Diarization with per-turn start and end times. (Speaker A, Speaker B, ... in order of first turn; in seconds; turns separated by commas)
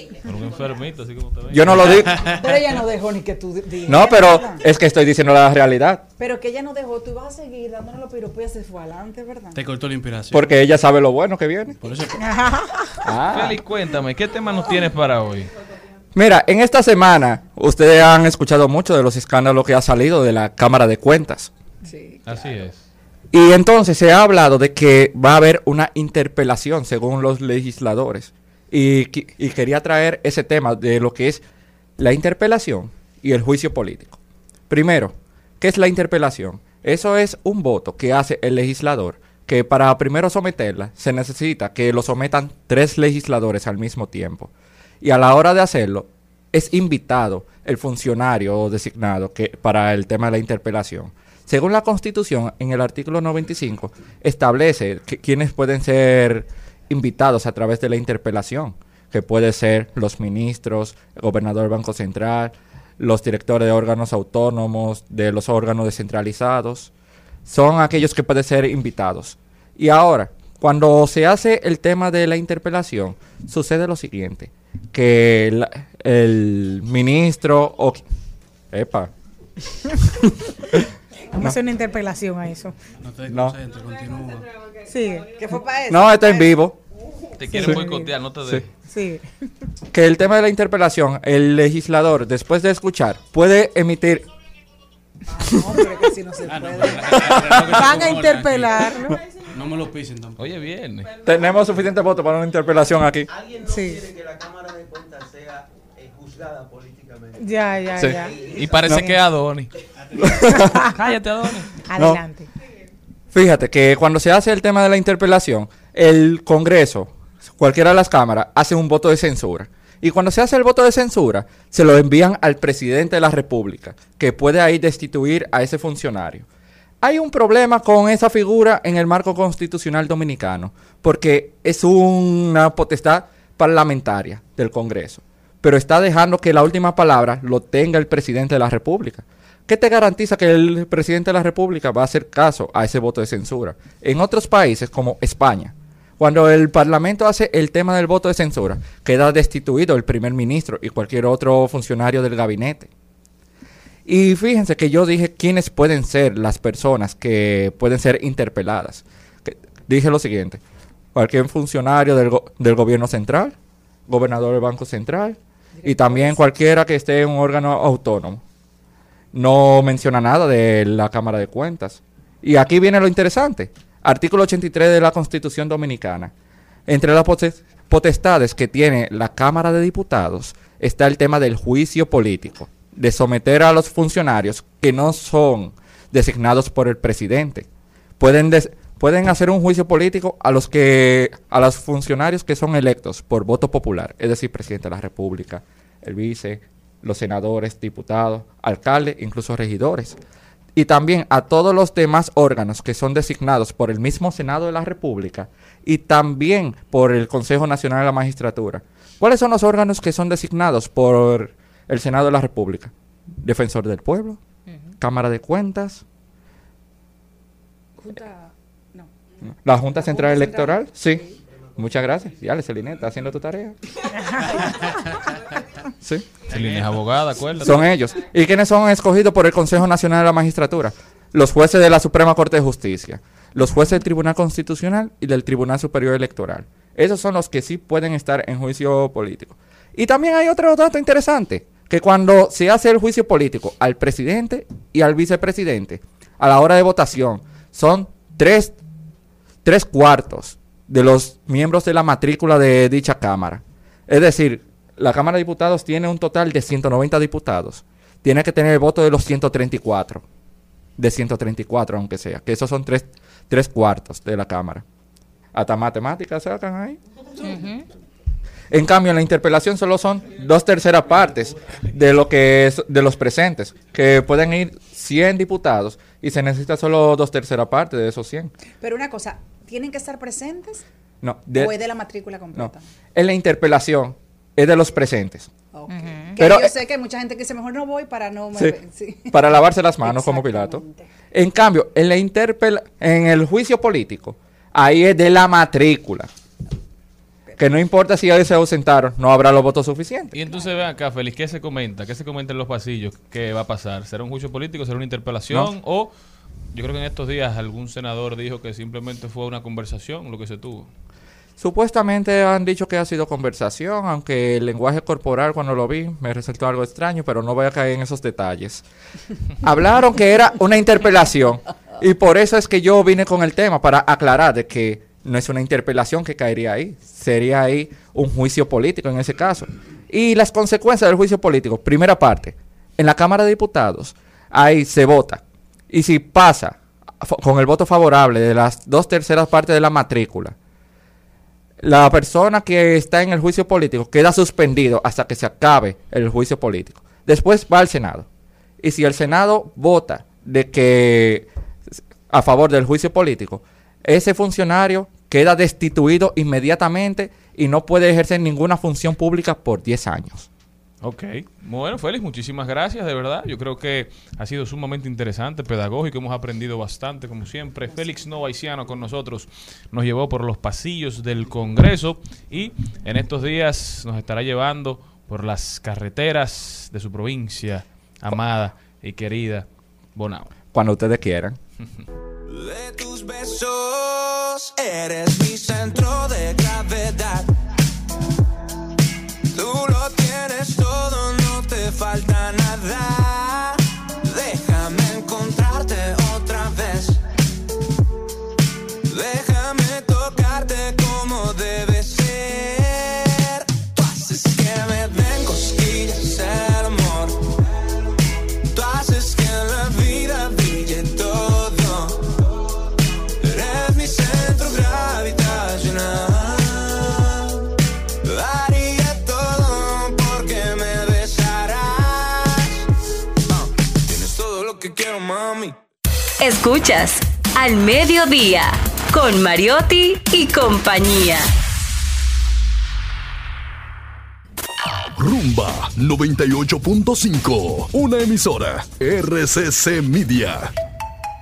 Speaker A: 0.2-2.1, Speaker B: 1.5-2.2, Speaker C: 1.9-2.4, Speaker D: 2.2-4.7, Speaker B: 3.9-6.0, Speaker D: 6.2-9.6, Speaker C: 9.6-10.5, Speaker B: 10.3-11.8, Speaker C: 11.8-12.4, Speaker E: 12.3-12.6, Speaker B: 13.0-13.6, Speaker A: 13.3-15.5, Speaker B: 16.1-21.5, Speaker D: 21.8-22.6, Speaker A: 22.3-22.8, Speaker B: 23.3-31.4, Speaker B: 32.0-34.2, Speaker B: 34.7-44.5, Speaker B: 45.0-66.9, Speaker B: 67.5-78.0, Speaker B: 78.7-79.1, Speaker E: 81.3-82.8, Speaker C: 83.0-84.5, Speaker B: 83.3-83.6, Speaker E: 84.9-85.4, Speaker D: 85.3-86.6, Speaker B: 85.9-86.8, Speaker A: 87.4-88.7, Speaker E: 87.5-88.1, Speaker E: 88.9-89.2, Speaker B: 89.9-94.3, Speaker D: 95.3-98.0, Speaker C: 96.5-98.9, Speaker E: 97.7-99.2, Speaker C: 99.5-100.4, Speaker A: 100.4-101.1, Speaker B: 101.2-103.3, Speaker F: 103.3-107.4, Speaker E: 103.7-104.0, Speaker E: 107.4-108.3, Speaker F: 108.2-108.7, Speaker A: 108.5-109.7, Speaker B: 110.2-110.8, Speaker E: 110.6-111.1, Speaker A: 111.0-111.7, Speaker E: 111.8-112.5, Speaker B: 112.0-112.2, Speaker B: 113.3-126.5, Speaker B: 127.0-152.9, Speaker B: 154.1-160.6, Speaker B: 161.2-163.5, Speaker B: 164.1-168.4, Speaker D: 165.8-166.4, Speaker B: 169.3-176.3, Speaker B: 176.9-187.7, Speaker B: 188.2-200.2, Speaker B: 200.8-214.4, Speaker B: 215.0-216.0, Speaker D: 218.0-219.1, Speaker B: 219.7-221.2, Speaker D: 219.9-221.3, Speaker B: 221.8-223.8, Speaker B: 226.0-226.3, Speaker A: 226.5-227.8, Speaker C: 226.5-226.9, Speaker B: 227.6-248.8, Speaker B: 249.7-260.2, Speaker B: 261.0-264.8, Speaker B: 265.5-267.0, Speaker E: 267.4-267.9, Speaker B: 268.7-278.5, Speaker D: 278.8-280.8, Speaker B: 281.2-281.8, Speaker D: 281.5-282.8, Speaker B: 282.6-285.5, Speaker D: 285.7-291.1, Speaker E: 285.9-286.4, Speaker B: 286.4-286.7, Speaker B: 289.3-290.8, Speaker B: 291.3-296.3, Speaker B: 297.6-300.3, Speaker A: 300.3-306.1, Speaker A: 306.7-310.9, Speaker B: 311.6-318.8, Speaker B: 319.6-340.6, Speaker B: 341.8-348.3, Speaker B: 348.8-351.5, Speaker B: 352.3-360.5, Speaker A: 361.0-380.5, Speaker B: 380.7-381.6, Speaker G: 382.5-387.5, Speaker G: 389.5-397.2, Speaker G: 399.1-407.5, Speaker G: 408.7-412.3, Speaker G: 413.4-417.5, Speaker G: 418.2-422.8, Speaker G: 423.5-425.8, Speaker H: 426.4-431.5, Speaker I: 435.2-440.7